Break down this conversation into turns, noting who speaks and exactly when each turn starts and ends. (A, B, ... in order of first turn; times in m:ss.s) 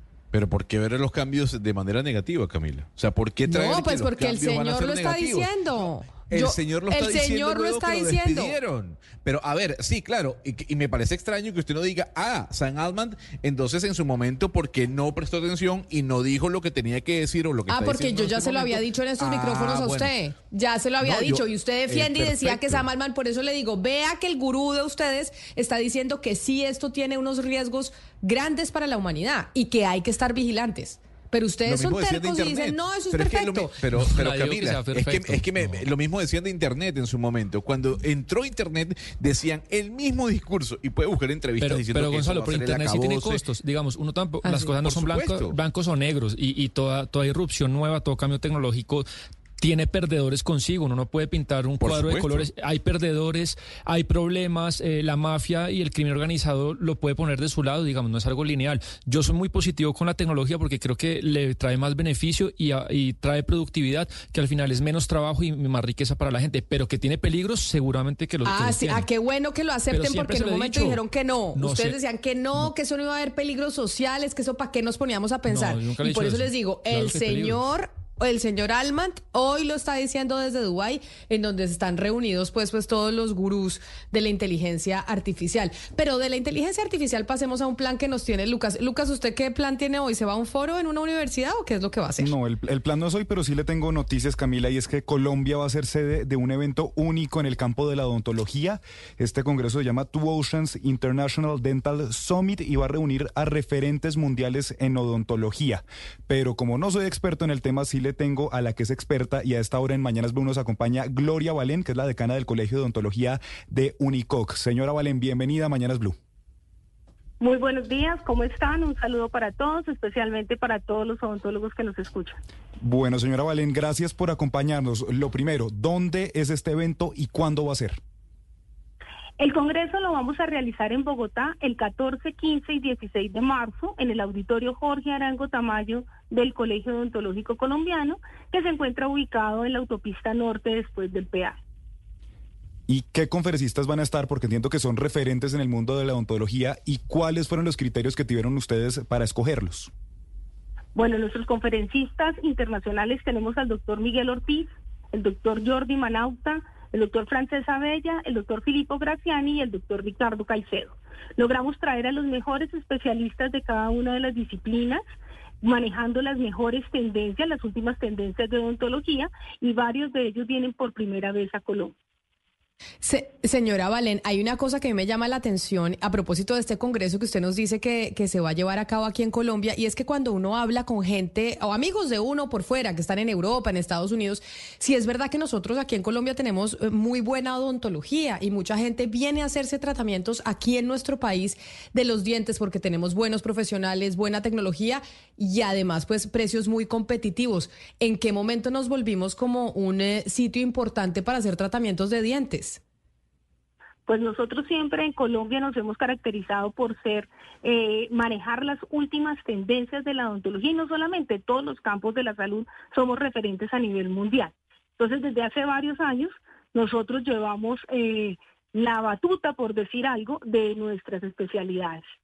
0:00.3-0:20.1 A
0:03.4-0:08.6 B
0:17.7-0:33.7 B
0:21.0-0:22.8 A
0:31.6-0:43.4 A
0:34.0-0:35.8 C
0:41.6-0:49.0 C
0:44.4-0:45.6 A
0:49.6-1:09.1 C
0:51.8-0:52.5 A
1:08.4-1:32.3 B
1:09.9-1:11.0 C
1:11.5-1:12.0 C
1:15.5-1:17.6 C
1:32.2-1:56.1 D
1:57.4-2:02.4 E
2:02.8-2:08.0 D
2:09.4-2:21.6 E
2:22.9-2:29.9 D
2:30.9-2:45.0 E
2:45.6-2:51.9 E
2:53.0-3:22.8 B
3:24.1-3:42.0 E